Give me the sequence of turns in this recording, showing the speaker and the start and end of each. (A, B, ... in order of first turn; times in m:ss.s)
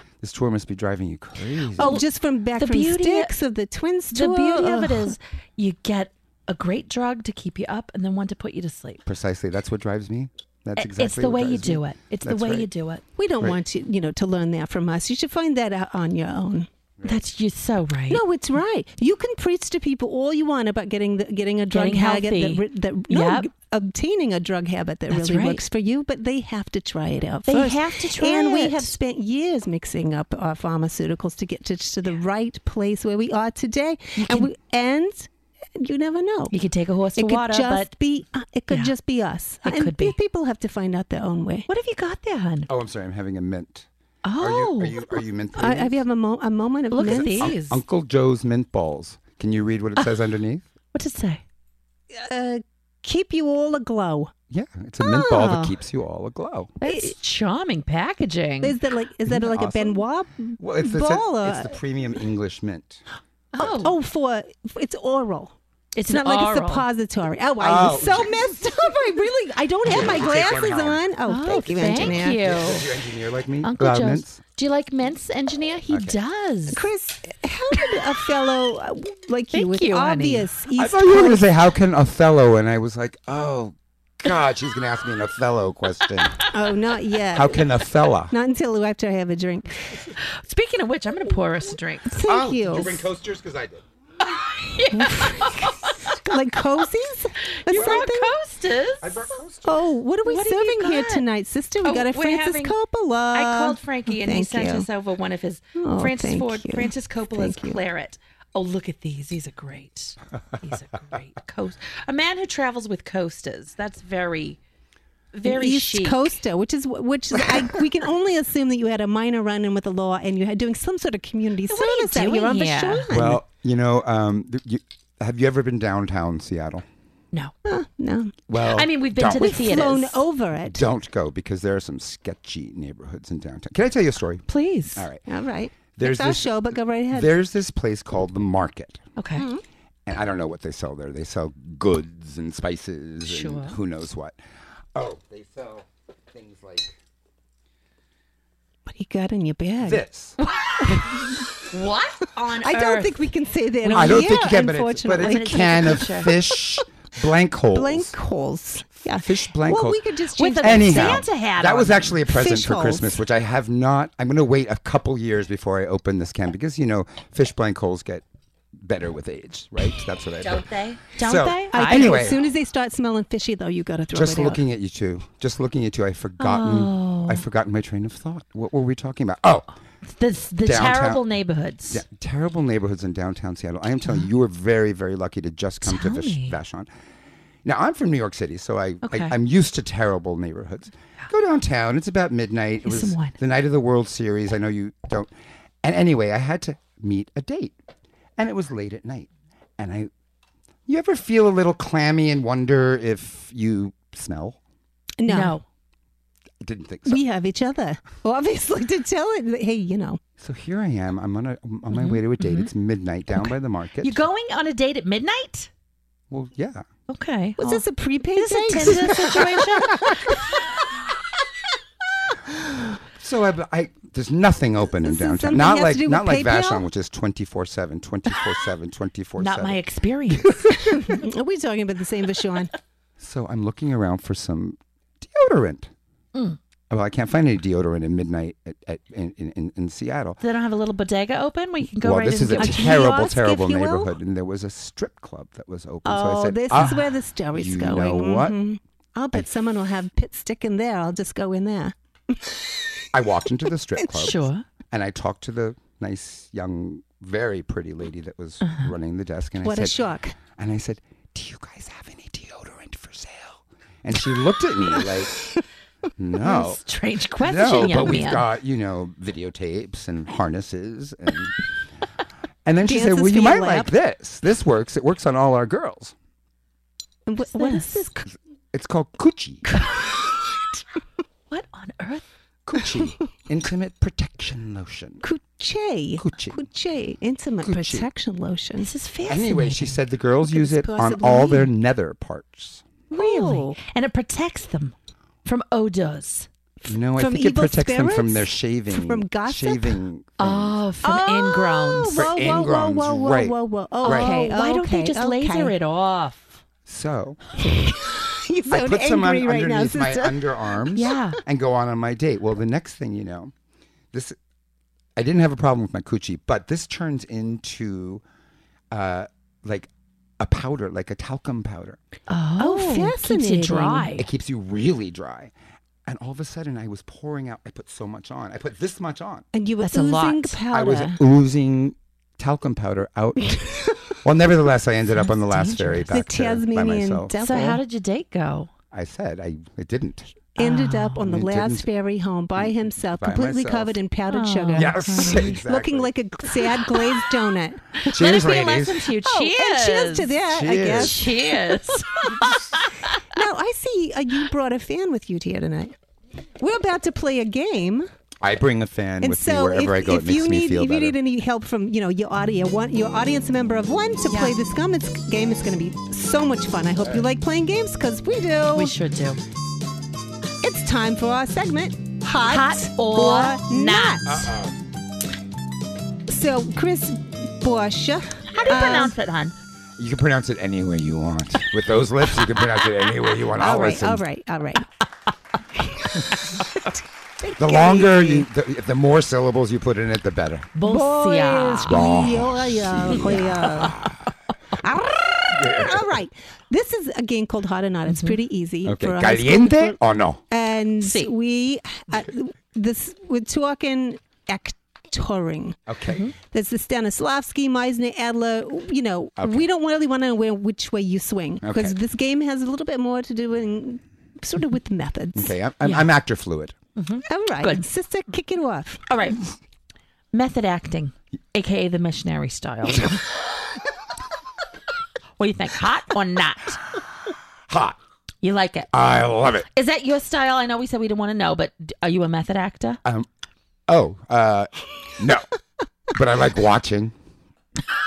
0:00.2-0:02.0 A
0:01.8-0:02.0 B
0:01.8-0:05.1 C
0:02.6-0:03.3 B
0:04.1-0:09.0 B
0:09.0-0:12.7 A
0:10.8-0:13.0 B
0:13.2-0:16.7 C
0:17.0-0:18.2 B
0:18.1-0:36.5 C
0:21.7-0:23.5 B
0:25.1-0:25.6 B
0:27.4-0:28.9 B
0:34.2-0:34.5 B
0:36.5-0:37.9 B
0:37.2-0:41.7 C
0:39.6-0:40.2 B
0:41.7-0:42.7 B
0:42.7-0:43.9 A
0:44.2-0:45.0 B
0:44.4-0:46.0 A
0:45.5-0:47.5 C
0:46.9-0:47.8 B
0:47.0-0:50.6 A
0:50.9-0:51.4 B
0:52.1-0:54.3 C
0:54.5-0:56.8 A
0:55.0-0:55.7 C
0:56.8-0:58.8 B
0:56.8-0:57.1 C
0:58.6-1:01.7 C
0:59.3-1:00.0 A
1:00.6-1:03.0 A
1:03.5-1:03.9 B
1:03.6-1:03.8 A
1:03.8-1:05.5 C
1:05.9-1:06.9 B
1:06.1-1:12.4 C
1:07.6-1:08.7 A
1:09.8-1:14.4 A
1:11.3-1:12.9 B
1:13.6-1:16.8 B
1:15.9-1:16.2 A
1:16.7-1:21.4 C
1:19.5-1:20.4 B
1:20.8-1:26.5 A
1:26.5-1:27.7 C
1:27.3-1:28.3 A
1:28.3-1:30.0 C
1:30.2-1:32.2 B
1:32.1-1:33.0 C
1:32.2-1:33.8 A
1:34.2-1:36.3 B
1:34.9-1:38.3 C
1:37.6-1:39.4 B
1:37.7-1:38.1 A
1:39.0-1:39.8 A
1:39.6-1:44.9 C
1:40.2-1:41.2 B
1:41.8-1:42.8 B
1:43.3-1:54.6 B
1:45.8-1:47.8 C
1:55.3-1:56.3 B
1:55.4-2:03.4 C
2:01.7-2:03.1 B
2:03.1-2:06.8 A
2:07.6-2:08.3 C
2:08.5-2:09.6 A
2:08.6-2:10.2 B
2:09.2-2:10.8 C
2:10.7-2:15.2 A
2:14.5-2:15.0 B
2:15.3-2:17.3 C
2:15.9-2:19.0 A
2:19.2-2:19.4 B
2:19.4-2:19.6 C
2:20.0-2:24.4 A
2:23.2-2:23.8 B
2:24.9-2:27.0 A
2:28.9-2:30.0 C
2:29.8-2:30.4 A
2:30.8-2:31.5 C
2:31.7-2:33.3 B
2:32.6-2:36.4 C
2:33.8-2:34.5 B
2:33.9-2:38.1 A
2:35.2-2:36.3 B
2:37.7-2:41.2 C
2:39.0-2:40.0 A
2:40.3-2:42.2 B
2:40.6-2:48.2 A
2:42.3-2:43.2 C
2:48.8-2:52.4 A
2:50.4-2:52.4 B
2:51.7-2:54.6 C
2:54.1-2:59.7 A
2:56.4-2:57.4 B
3:00.1-3:02.0 B
3:00.6-3:01.2 A
3:01.9-3:06.9 A
3:05.8-3:06.6 B
3:07.6-3:15.3 A
3:09.0-3:09.3 B
3:12.8-3:13.4 B
3:15.8-3:17.8 A
3:18.4-3:20.1 A
3:20.9-3:24.6 A
3:25.2-3:25.6 C
3:25.2-3:25.6 B
3:26.6-3:27.2 A
3:27.1-3:30.2 C
3:30.4-3:34.2 A
3:31.9-3:32.7 B
3:34.0-3:35.7 B
3:36.3-3:36.8 A
3:37.1-3:37.8 B
3:37.6-3:40.2 C
3:38.3-3:40.5 B
3:43.1-3:51.0 A
3:45.0-3:46.8 C
3:49.4-3:50.9 B
3:50.9-3:52.7 C
3:53.2-3:55.9 A
3:56.9-4:00.4 A
4:00.4-4:03.1 B
4:01.9-4:08.6 A
4:02.5-4:04.1 C
4:06.0-4:13.1 C
4:13.1-4:25.4 A
4:14.1-4:14.6 B
4:19.6-4:20.4 C
4:26.2-4:26.8 A
4:26.4-4:28.4 B
4:27.4-4:31.6 A
4:32.6-4:36.1 A
4:32.8-4:33.9 C
4:37.2-4:38.2 C
4:37.4-4:38.1 B
4:38.7-4:39.7 A
4:39.7-4:40.8 C
4:41.5-4:42.2 B
4:42.6-4:45.2 A
4:45.2-4:48.9 C
4:46.2-4:46.6 A
4:47.6-4:48.1 A
4:48.8-4:50.0 B
4:49.3-4:52.8 A
4:50.4-4:51.7 C
4:53.1-4:53.8 C
4:53.1-4:56.5 B
4:56.8-5:00.8 A
4:57.2-5:00.0 C
5:00.4-5:02.4 B
5:01.0-5:05.7 C
5:02.1-5:04.3 A
5:04.0-5:06.5 B
5:06.8-5:07.4 A
5:07.6-5:11.2 C
5:08.7-5:13.5 A
5:10.9-5:11.4 B
5:15.2-5:18.2 A
5:18.9-5:22.0 A
5:22.3-5:24.3 B
5:22.6-5:24.1 C
5:24.2-5:25.5 A
5:26.0-5:29.4 A
5:29.5-5:31.2 C
5:29.8-5:30.6 B
5:30.7-5:37.3 A
5:35.1-5:36.1 B
5:36.1-5:37.8 C
5:37.4-5:38.7 B
5:38.9-5:40.5 A
5:40.6-5:48.1 C
5:40.6-5:41.2 B
5:41.2-5:41.8 A
5:42.6-5:44.0 A
5:44.3-5:45.6 B
5:44.8-5:46.1 A
5:48.0-5:50.3 B
5:48.0-5:49.0 A
5:49.2-5:51.3 C
5:50.5-5:51.2 A
5:50.9-5:53.2 B
5:53.2-5:55.9 C
5:56.6-5:58.1 C
5:58.4-6:01.2 A
5:59.2-6:09.0 C
6:04.3-6:04.5 B
6:08.7-6:09.4 B
6:10.6-6:14.4 C
6:12.4-6:14.5 B
6:14.2-6:14.9 A
6:16.3-6:19.1 C
6:18.5-6:19.5 B
6:18.5-6:19.0 A
6:20.0-6:24.2 A
6:23.5-6:24.8 C
6:27.4-6:28.5 C
6:27.6-6:30.7 A
6:30.8-6:32.0 B
6:30.8-6:34.0 C
6:31.8-6:34.1 A
6:33.2-6:34.0 B
6:34.8-6:40.0 C
6:35.5-6:36.1 A
6:38.1-6:38.4 B
6:38.8-6:40.4 A
6:40.5-6:45.8 C
6:41.0-6:41.3 B
6:45.9-6:46.2 A
6:46.1-6:46.3 B
6:46.3-6:55.5 C
6:49.4-6:49.6 A
6:51.6-6:52.0 A
6:55.4-6:56.7 A
6:55.8-6:56.1 B
6:57.0-6:57.8 B
6:57.3-6:59.0 C
6:59.1-6:59.4 B
7:00.3-7:03.2 B
7:05.4-7:06.8 B
7:07.7-7:08.0 A
7:08.4-7:08.9 B
7:08.9-7:09.7 A
7:09.7-7:13.0 B
7:13.9-7:15.4 A
7:16.1-7:17.1 A